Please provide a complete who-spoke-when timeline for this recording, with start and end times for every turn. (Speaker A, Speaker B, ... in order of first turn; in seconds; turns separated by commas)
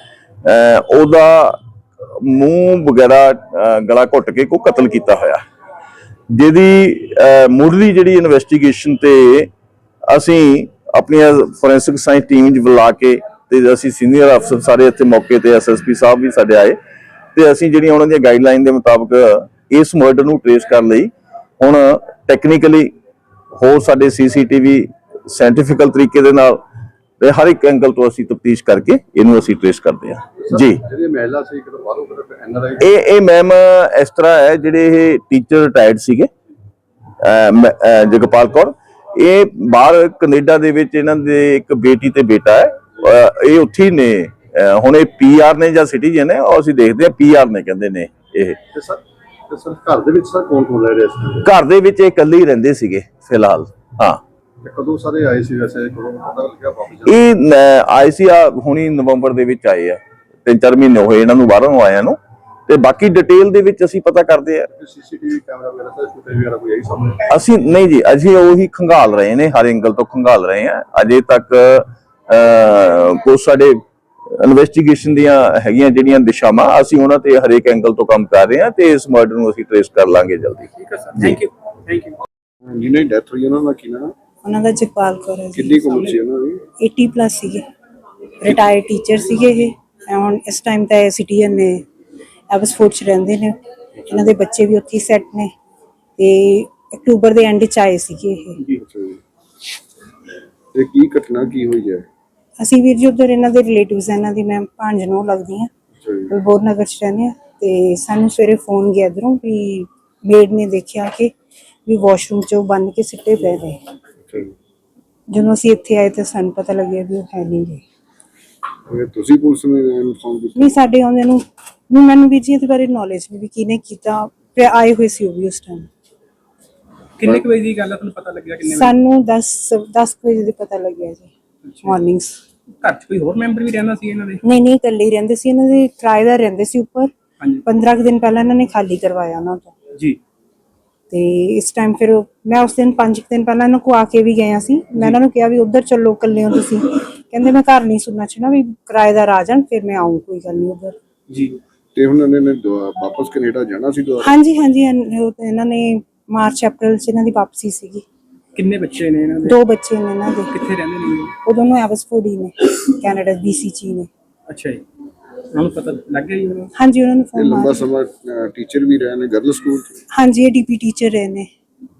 Speaker A: 0.4-1.6, Speaker A: 2.1-5.4, Speaker A: 6.3-9.5, Speaker A: 10.1-16.8, Speaker A: 17.3-22.9, Speaker A: 23.6-26.6, Speaker A: 27.2-30.8, Speaker B: 30.5-32.9, Speaker A: 32.8-36.3, Speaker A: 37.2-48.6, Speaker B: 48.7-51.5, Speaker A: 51.4-54.2, Speaker B: 54.6-57.2, Speaker A: 57.0-62.2, Speaker A: 62.7-64.7, Speaker B: 64.7-67.2, Speaker A: 67.3-73.8, Speaker A: 74.3-80.7, Speaker C: 80.8-82.2, Speaker B: 82.6-84.1, Speaker D: 84.4-86.1, Speaker B: 85.5-86.6, Speaker D: 86.8-87.6, Speaker D: 88.4-91.8, Speaker D: 92.5-95.5, Speaker D: 96.2-98.6, Speaker B: 98.8-99.2, Speaker B: 100.7-102.0, Speaker D: 102.6-105.7, Speaker B: 106.0-106.3, Speaker D: 106.3-111.3, Speaker D: 111.8-113.8, Speaker B: 114.3-114.5, Speaker D: 115.3-117.8, Speaker B: 118.9-120.8, Speaker D: 120.5-125.9, Speaker C: 127.2-128.9, Speaker D: 128.7-131.3, Speaker C: 131.6-131.9, Speaker D: 131.8-132.4, Speaker C: 132.8-134.4, Speaker D: 134.4-137.1, Speaker D: 137.6-139.7, Speaker D: 141.1-150.9, Speaker C: 151.3-151.6, Speaker B: 151.9-154.4, Speaker D: 154.2-158.0, Speaker C: 158.5-159.6, Speaker D: 159.4-160.5, Speaker C: 160.5-161.3, Speaker D: 161.4-164.1, Speaker C: 164.5-164.8, Speaker C: 165.5-166.7, Speaker D: 166.7-167.9, Speaker B: 167.3-169.9, Speaker D: 170.1-171.5